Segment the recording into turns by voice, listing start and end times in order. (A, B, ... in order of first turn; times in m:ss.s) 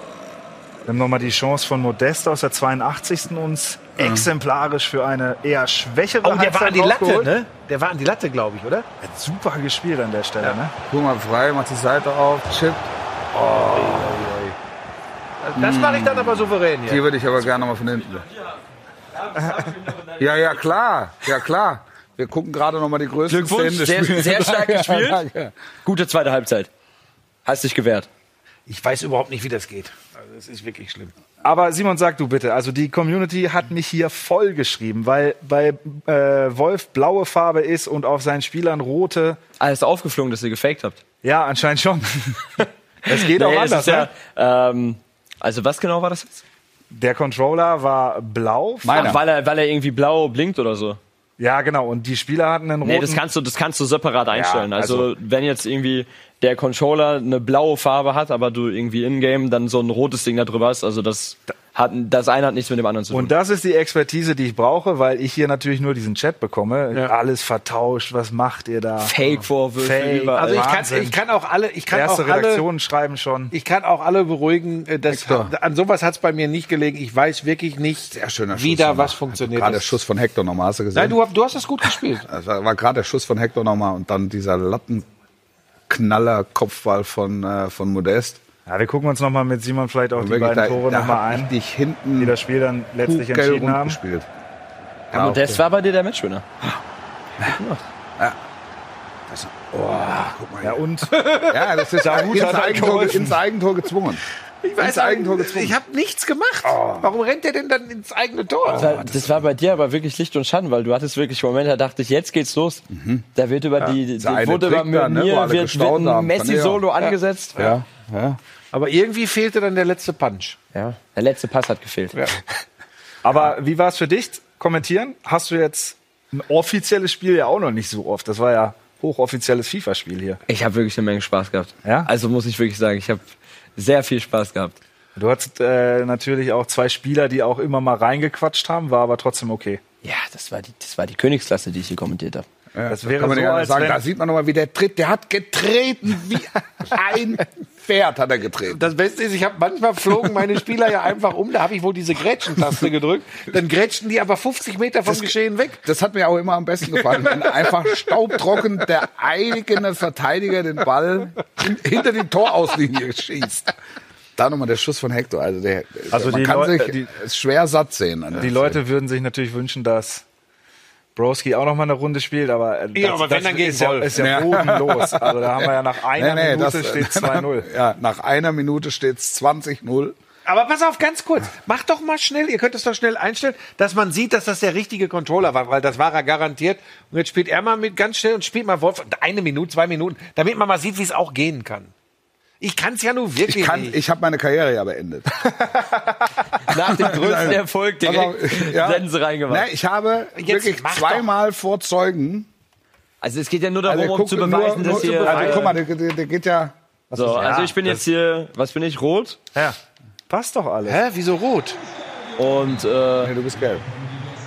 0:00.9-0:07.4 A
0:04.0-0:04.3 B
0:06.2-0:08.9 C
0:09.0-0:10.7 A
0:10.9-0:14.2 B
0:13.3-0:14.6 C
0:15.4-0:17.0 C
0:15.6-0:18.3 B
0:19.2-0:20.2 D
0:20.2-0:25.5 B
0:23.3-0:25.2 D
0:25.8-0:26.7 D
0:27.4-0:28.1 D
0:28.7-0:31.1 C
0:31.4-0:39.4 A
0:39.6-0:41.0 D
0:41.2-0:44.1 A
0:43.1-0:46.4 D
0:46.9-0:49.2 A
0:48.8-0:49.2 B
0:48.9-0:51.0 D
0:51.4-0:53.2 A
0:52.8-1:03.4 D
0:54.3-0:55.1 A
1:03.1-1:11.2 A
1:09.0-1:10.6 D
1:10.4-1:12.7 C
1:10.5-1:10.8 B
1:11.9-1:13.6 A
1:13.5-1:20.0 C
1:15.1-1:15.5 B
1:18.1-1:21.2 B
1:20.9-1:22.3 C
1:21.9-1:25.1 B
1:25.9-1:28.4 B
1:28.7-1:31.5 A
1:30.2-1:32.4 B
1:32.2-1:34.0 A
1:33.0-1:34.3 B
1:35.1-1:35.6 B
1:35.1-1:36.4 D
1:37.5-1:37.8 D
1:39.3-1:40.8 B
1:40.6-1:41.3 A
1:41.1-1:43.1 C
1:41.4-1:44.2 B
1:42.0-1:43.4 A
1:44.6-1:49.0 C
1:44.8-1:45.8 B
1:46.7-1:47.1 B
1:48.7-1:49.4 B
1:48.7-1:52.8 D
1:52.9-1:53.3 B
1:53.4-1:57.6 D
1:54.0-1:56.9 B
1:57.0-1:57.8 C
1:57.6-1:58.4 B
1:58.7-2:00.6 C
2:00.7-2:02.2 D
2:03.2-2:10.4 A
2:10.5-2:13.2 D
2:13.8-2:14.8 D
2:15.2-2:19.8 A
2:20.0-2:22.4 D
2:22.7-2:28.8 B
2:22.9-2:24.0 A
2:28.7-2:35.8 C
2:35.1-2:43.7 B
2:44.4-2:48.8 B
2:46.1-2:47.1 A
2:48.4-2:50.2 A
2:51.2-2:57.7 A
2:53.0-2:54.4 C
2:54.2-3:00.2 B
3:00.5-3:11.9 C
3:12.6-3:14.0 C
3:13.4-3:15.3 B
3:15.6-3:16.3 C
3:16.6-3:19.7 D
3:16.9-3:22.5 B
3:20.4-3:21.3 C
3:23.2-3:25.7 D
3:23.8-3:27.6 B
3:24.8-3:25.8 C
3:27.1-3:29.4 D
3:27.4-3:28.0 A
3:30.3-3:31.0 A
3:30.8-3:31.8 C
3:32.4-3:33.3 D
3:33.2-3:33.9 B